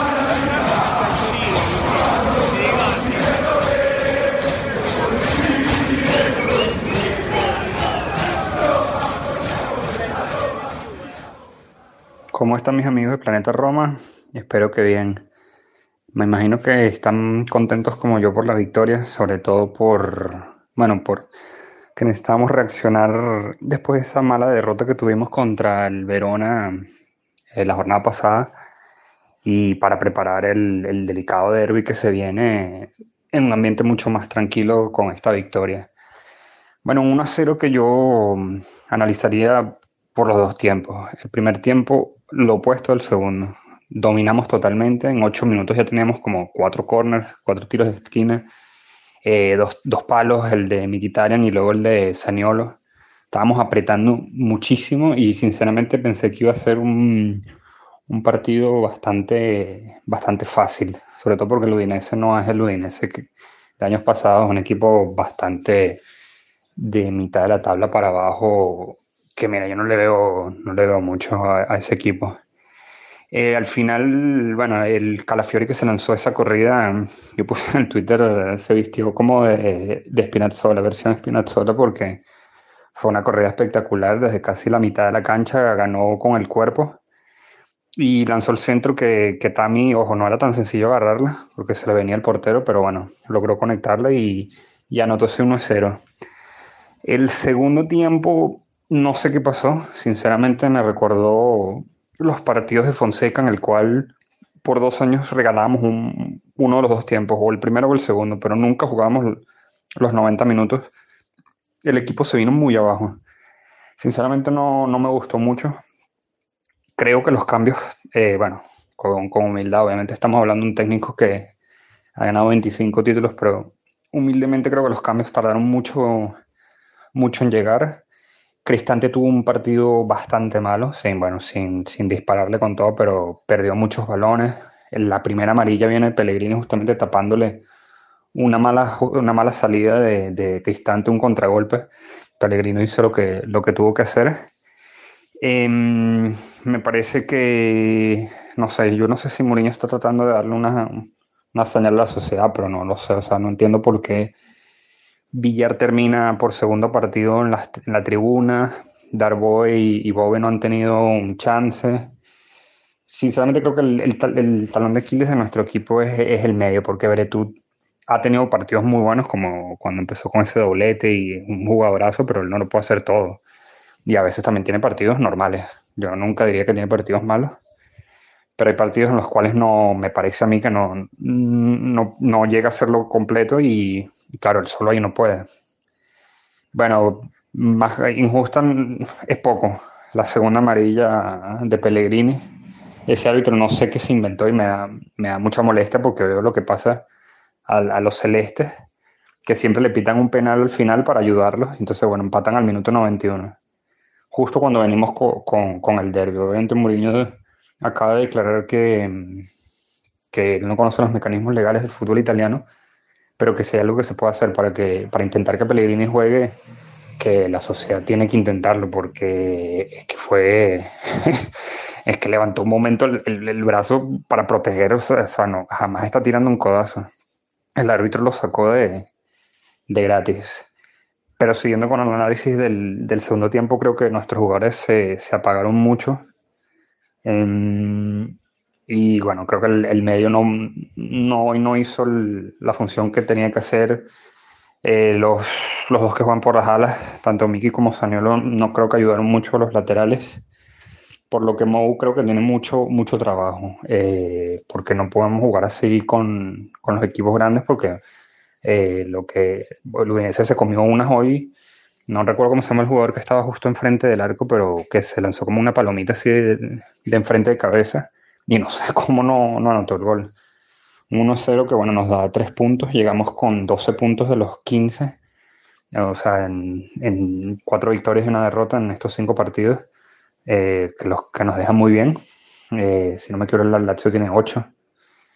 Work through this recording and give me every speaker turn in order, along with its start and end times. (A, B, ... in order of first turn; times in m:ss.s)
0:12.3-0:15.3 A
0:16.1-0:21.3 A
0:22.0-0:26.8 A
0:27.5-0:28.5 A
0:29.4-0:35.9 A
0:36.8-0:48.5 A
0:49.2-0:52.8 A
0:53.3-0:57.4 A
0:58.1-1:06.0 A
1:06.8-1:12.4 A
1:13.3-1:22.2 A
1:22.9-1:27.0 A
1:28.0-1:36.0 A
1:37.0-1:49.4 A
1:50.0-1:50.9 A
1:51.8-1:53.2 A
1:54.0-1:55.8 A
1:57.0-2:01.5 A
2:02.2-2:06.4 A
2:07.1-2:08.0 A
2:08.6-2:17.6 A
2:18.3-2:24.5 A
2:25.4-2:34.3 A
2:35.3-2:42.1 A
2:43.1-2:47.6 A
2:48.1-2:53.4 A
2:54.0-2:57.6 A
2:58.6-3:05.5 A
3:06.7-3:12.4 A
3:13.1-3:17.1 A
3:17.6-3:18.7 A
3:19.4-3:23.6 A
3:24.3-3:29.5 A
3:30.3-3:32.7 A
3:33.4-3:36.6 A
3:37.2-3:47.1 A
3:47.8-3:49.1 A
3:49.9-3:50.7 A
3:51.4-3:56.2 A
3:57.2-3:58.4 A
3:58.9-4:04.1 A
4:04.8-4:10.4 A
4:11.3-4:18.0 A
4:18.6-4:21.5 A
4:22.1-4:30.3 A
4:31.1-4:35.2 A
4:35.9-4:39.9 A
4:40.4-4:42.2 A
4:42.7-4:44.7 A